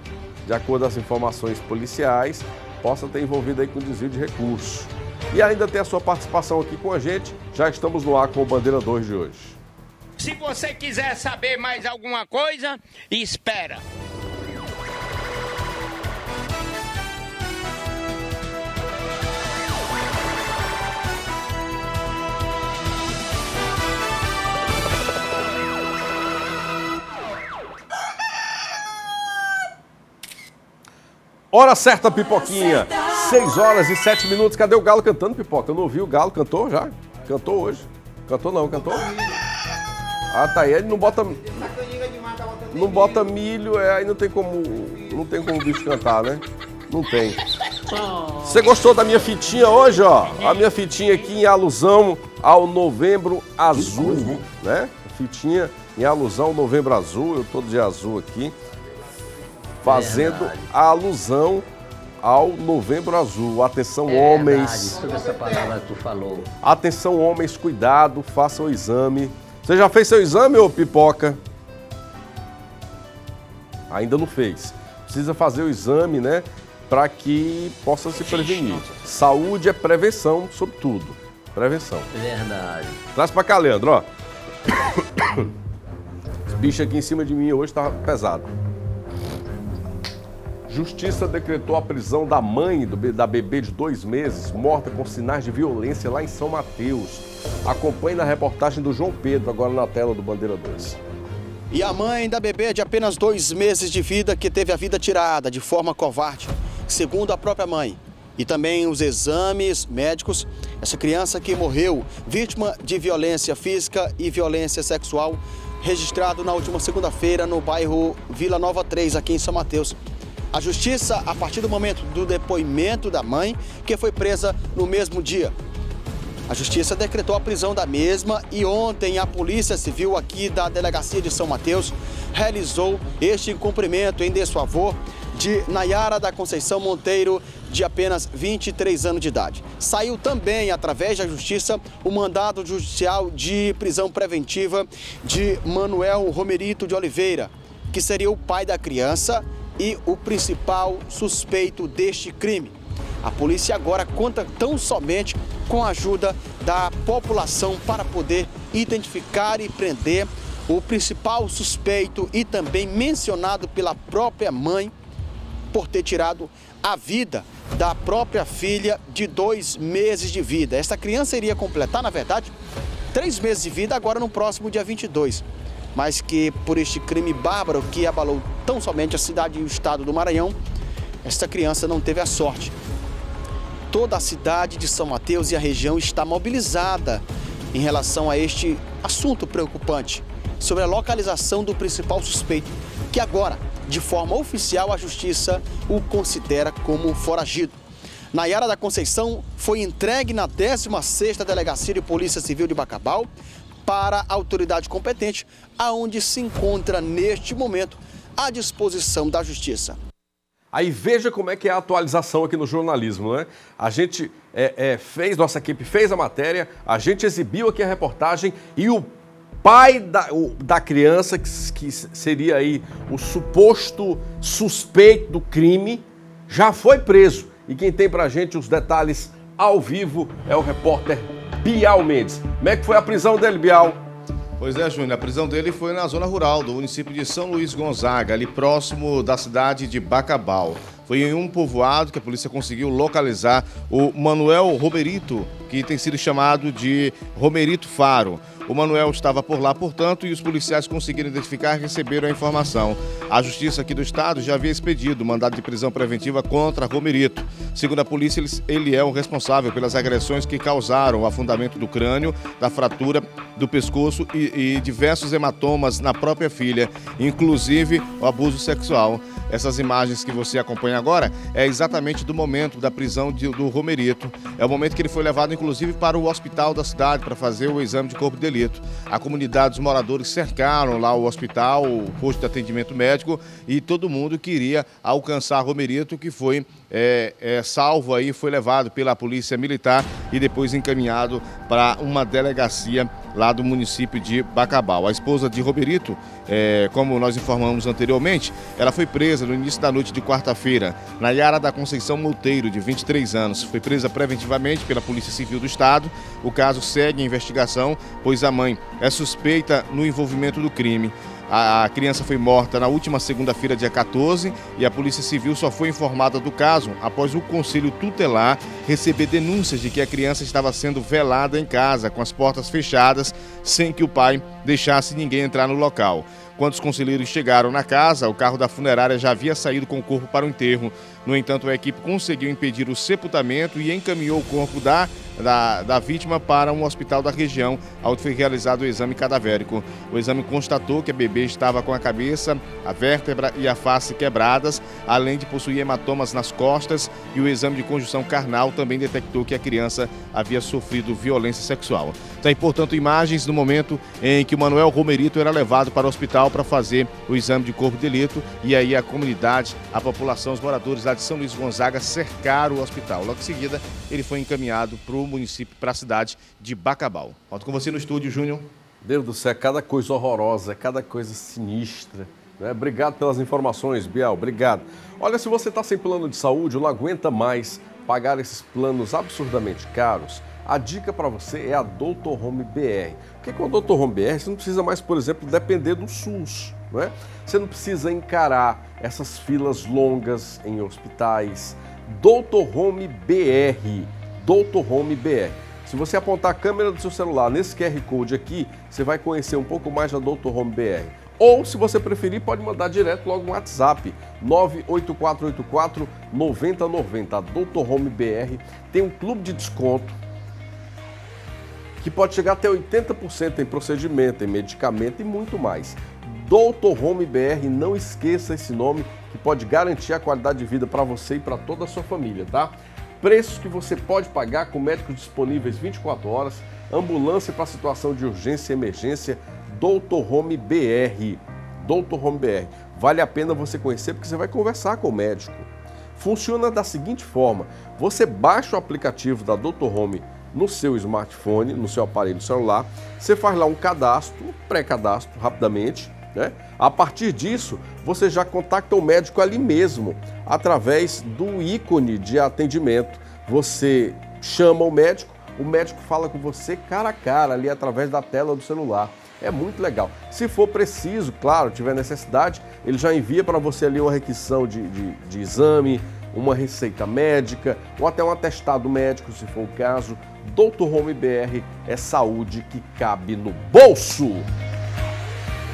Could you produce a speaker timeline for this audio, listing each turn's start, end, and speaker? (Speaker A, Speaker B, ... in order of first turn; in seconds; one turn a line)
Speaker A: 0.5-9.6
Speaker B: 10.2-13.8
Speaker A: 31.5-39.1
Speaker A: 40.3-41.7
Speaker A: 42.7-47.4
Speaker C: 47.9-48.7
Speaker A: 48.4-58.5
Speaker C: 50.3-50.7
Speaker C: 54.0-54.3
Speaker A: 59.8-61.7
Speaker C: 59.8-60.7
Speaker A: 62.2-65.0
Speaker C: 64.1-66.5
Speaker A: 66.6-71.4
Speaker A: 73.9-82.1
Speaker C: 82.1-83.0
Speaker A: 83.1-84.1
Speaker A: 86.5-88.5
Speaker A: 90.7-101.0
Speaker D: 101.7-120.0
Speaker D: 120.5-125.5
Speaker D: 126.5-164.9
Speaker D: 165.7-172.6
Speaker D: 173.1-180.6
Speaker D: 181.2-182.8
Speaker D: 183.9-197.8
Speaker D: 198.3-203.3
Speaker D: 203.8-210.0
Speaker A: 210.7-219.1
Speaker A: 219.6-234.0
Speaker E: 234.6-368.7
Speaker A: 369.0-410.2
Speaker A: 412.0-474.5